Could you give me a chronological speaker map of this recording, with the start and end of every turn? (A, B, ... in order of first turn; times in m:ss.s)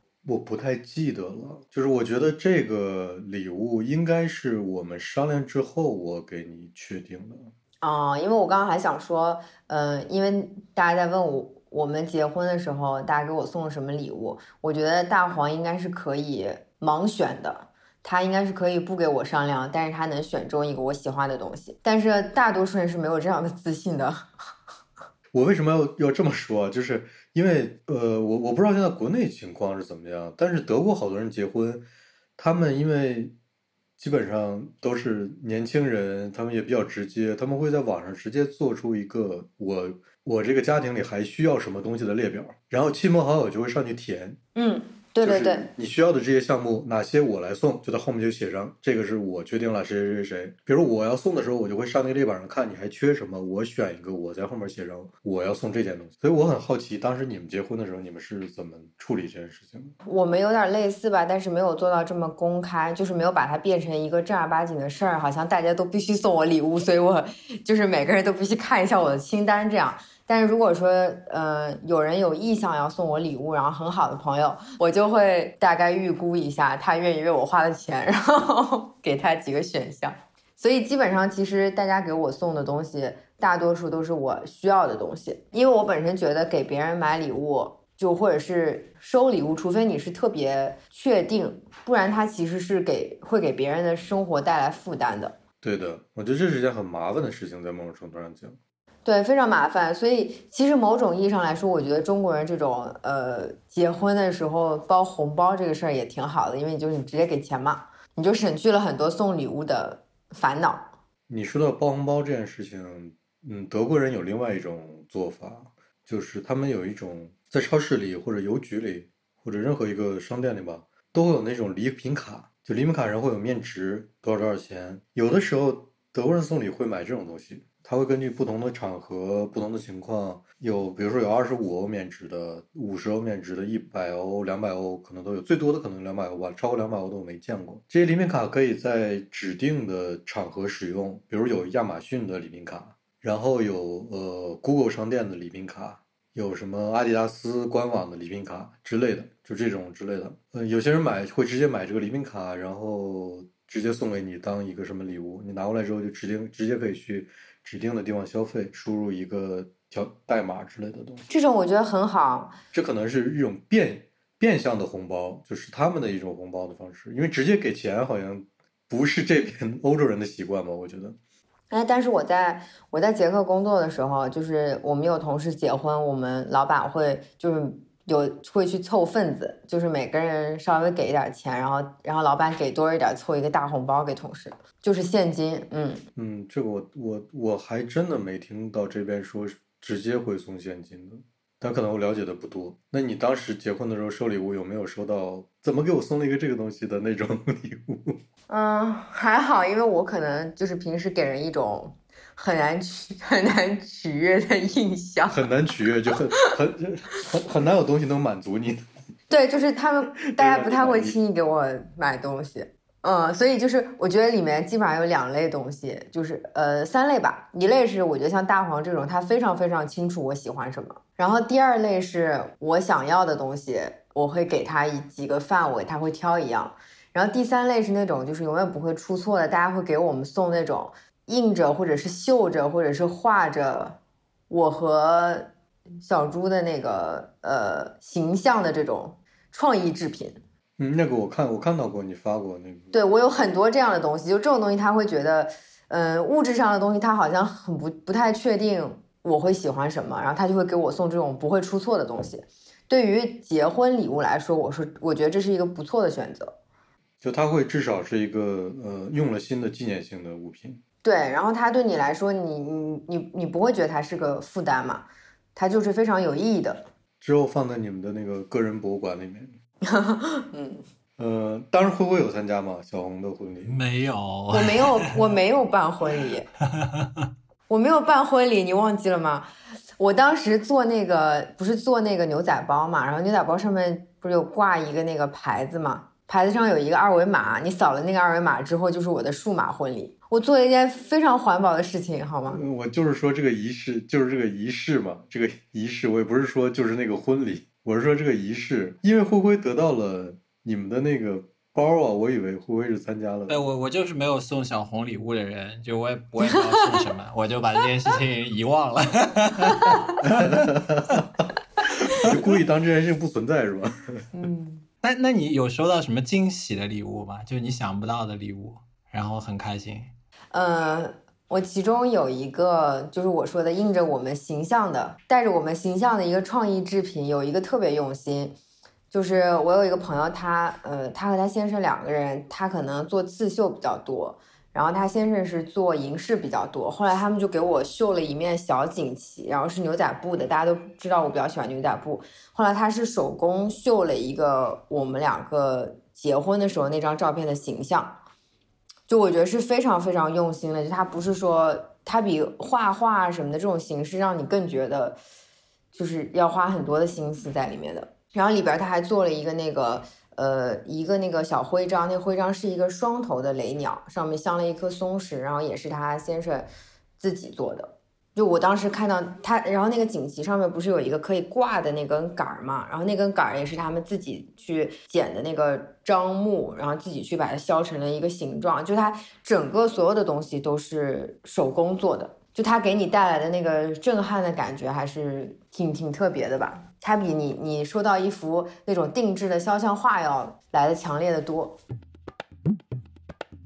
0:00.2-0:07.5 A
0:07.8-0:24.3 B
0:25.3-0:31.8 A
0:32.4-0:33.3 A
0:34.0-0:44.4 A
0:44.5-0:45.7 B
0:45.2-0:59.9 A
1:00.0-1:35.4 B
1:35.6-1:38.6 A
1:39.0-1:50.9 B
1:51.3-2:41.2 A
2:41.3-2:42.6 B
2:42.7-2:51.2 A
2:51.7-3:06.0 B
3:06.2-3:18.2 A
3:18.5-3:25.5 B
3:25.3-3:28.8 A
3:29.3-3:55.5 B
3:30.4-3:31.2 A
3:56.0-4:00.4 B
4:00.8-4:02.9 A
4:02.9-4:16.6 B
4:17.2-4:20.8 A
4:21.0-4:26.9 B
4:27.2-4:29.5 A
4:29.8-4:30.8 B
4:31.2-4:33.8 A
4:33.6-4:35.0 C
4:34.5-4:36.5 B
4:36.8-4:37.2 C
4:37.7-4:52.6 B
4:52.5-5:03.6 A
5:03.5-5:10.5 C
5:09.8-5:10.1 B
5:10.2-5:11.2 A
5:12.1-5:14.2 A
5:14.3-5:14.8 B
5:15.0-5:20.1 C
5:20.5-5:28.6 B
5:29.1-5:48.2 B
5:49.1-5:55.2 B
5:55.9-6:06.7 B
6:07.2-6:31.8 B